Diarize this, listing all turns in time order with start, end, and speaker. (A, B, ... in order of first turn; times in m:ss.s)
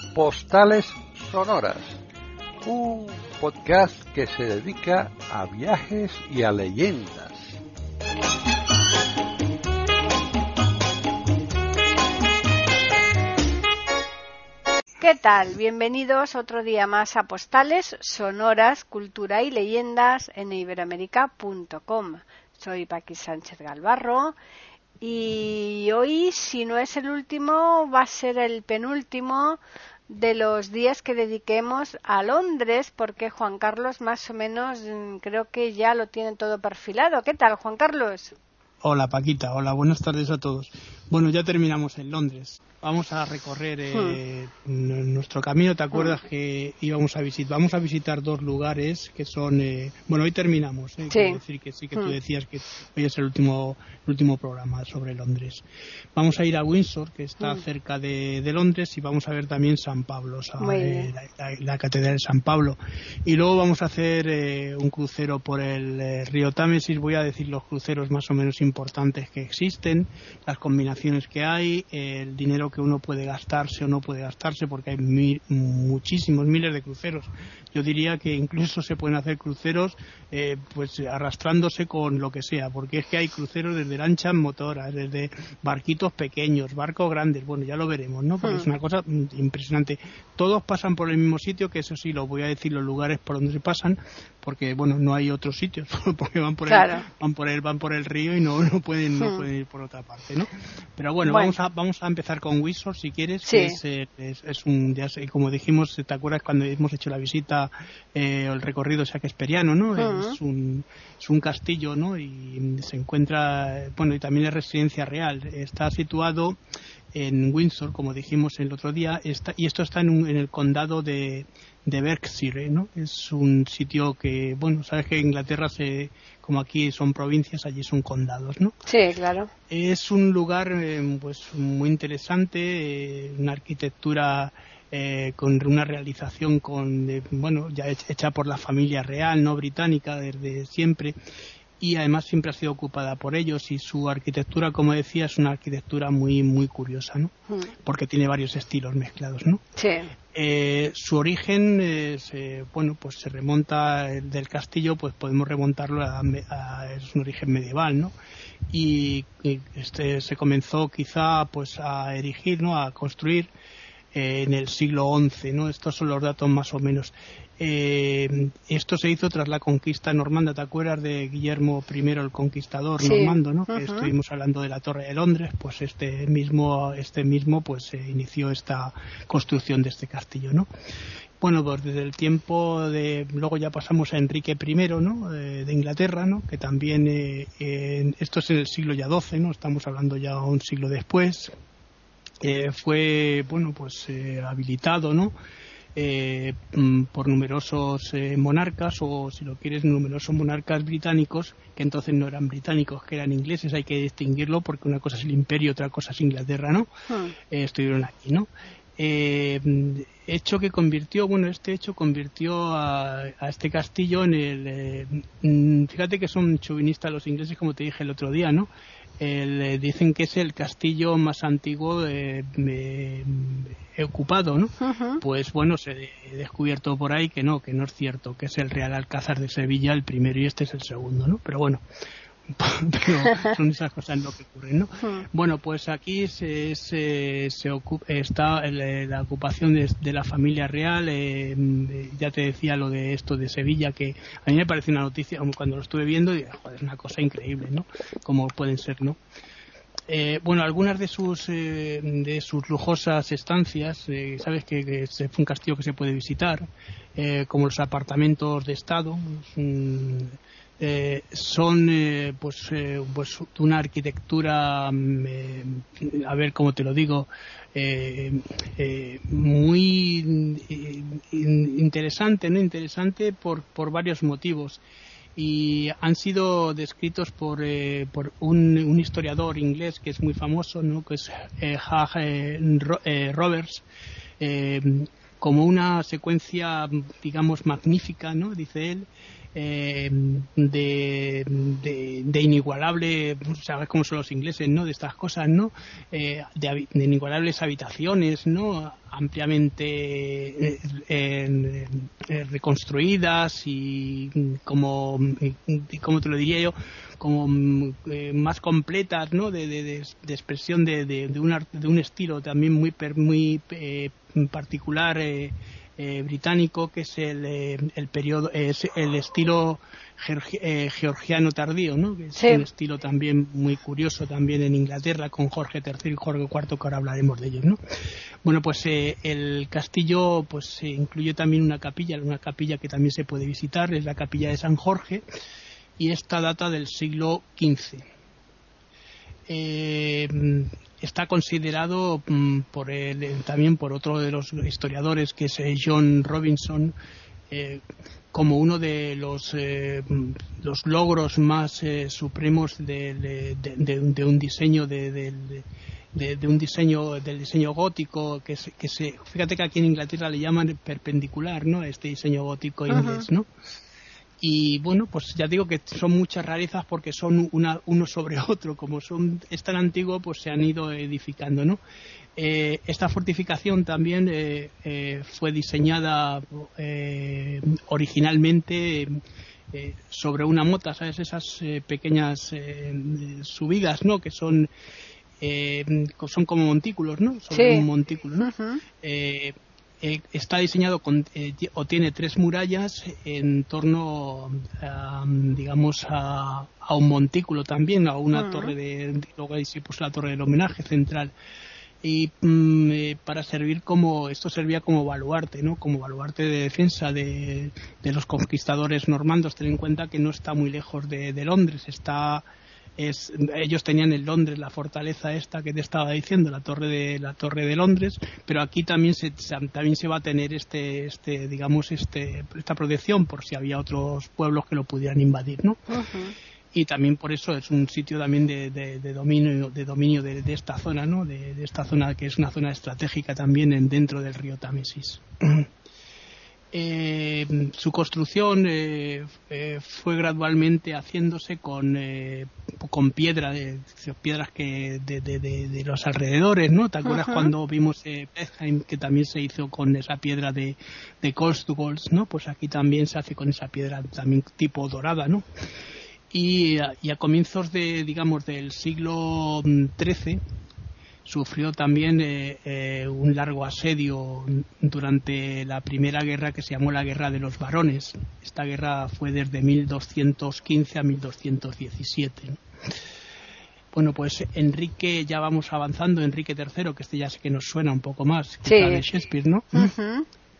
0:00.1-0:02.0 A
0:02.6-0:07.6 A
0:15.0-0:24.4 B
0:25.0-0:38.3 B
0:38.8-0:55.6 C
0:43.9-0:44.2 B
0:51.1-0:51.4 B
0:56.2-1:56.6 C
1:00.6-1:01.1 B
1:36.7-1:37.0 B
1:39.2-1:39.4 B
1:41.2-1:41.5 B
1:43.4-1:43.8 B
1:50.0-1:50.4 B
1:57.1-2:08.7 C
2:08.8-2:09.5 B
2:09.7-2:21.1 C
2:21.8-2:29.6 C
2:29.8-2:30.1 B
2:30.3-2:38.1 C
2:38.7-2:43.5 C
2:44.1-3:00.7 C
2:53.0-2:54.1 B
3:01.4-3:11.5 C
3:12.4-3:15.3 C
3:16.0-3:26.9 C
3:27.1-3:27.3 B
3:27.5-3:38.7 C
3:39.2-3:51.8 C
3:44.8-3:45.2 B
3:52.5-4:09.2 C
3:55.0-3:55.2 B
4:10.1-4:16.6 C
4:17.2-4:34.8 C
4:35.4-4:43.8 C
4:44.4-5:27.8 C
5:22.4-5:22.6 B
5:28.4-5:35.2 C
5:36.0-5:38.0 C
5:39.5-5:46.9 C
5:47.5-6:03.5 C
6:02.9-6:03.2 B
6:04.4-6:11.8 C
6:12.4-6:19.2 C
6:19.7-6:24.7 C
6:25.4-6:28.5 C
6:27.5-6:27.9 B
6:28.4-6:28.8 B
6:29.0-6:41.3 C
6:38.3-6:38.7 B
6:42.0-6:52.4 C
6:53.0-7:05.8 C
7:05.9-7:06.3 B
7:06.7-7:15.7 C
7:16.7-7:35.4 C
7:27.0-7:27.5 B
7:36.3-7:40.4 C
7:41.2-7:52.6 C
7:53.9-7:59.9 C
7:58.6-7:59.0 B
7:59.7-8:00.3 B